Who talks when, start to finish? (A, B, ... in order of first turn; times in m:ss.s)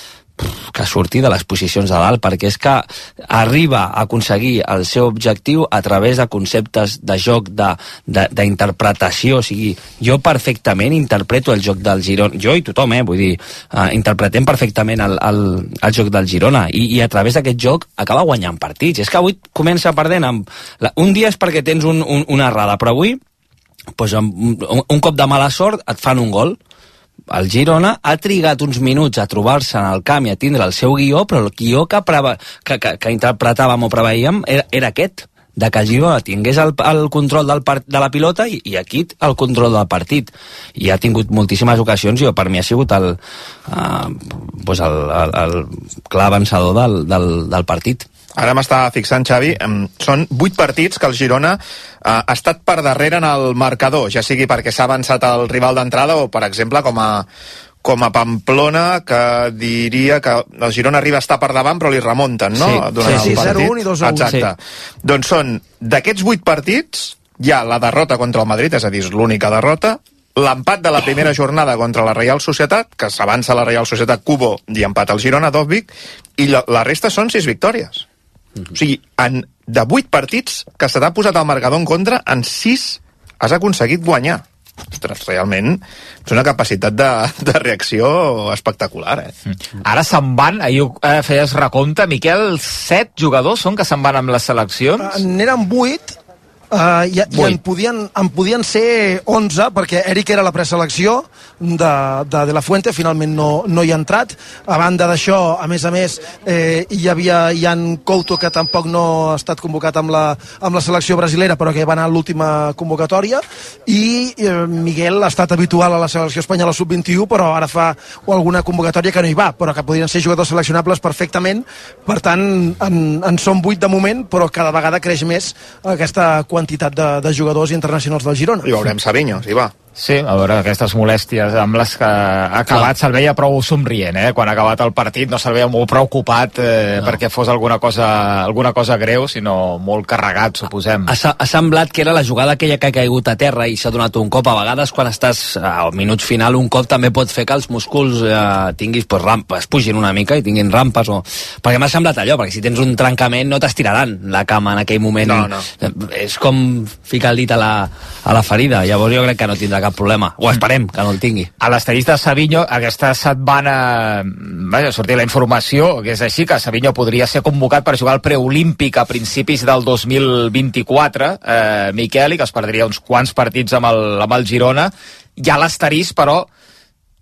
0:00.4-0:23.2 A
0:24.0-0:26.6 A
0:27.3-0:48.1 A
0:48.3-0:57.3 B
0:57.8-1:18.0 B
1:02.5-1:03.5 A
1:03.1-1:04.3 C
1:18.7-1:24.4 B
1:25.0-1:29.3 B
1:29.8-1:35.2 D
1:35.0-1:36.2 C
1:36.7-2:08.6 C
2:08.6-2:09.7 B
2:10.0-2:21.1 D
2:21.1-2:41.5 A
2:35.2-2:35.7 B
2:41.6-2:56.5 D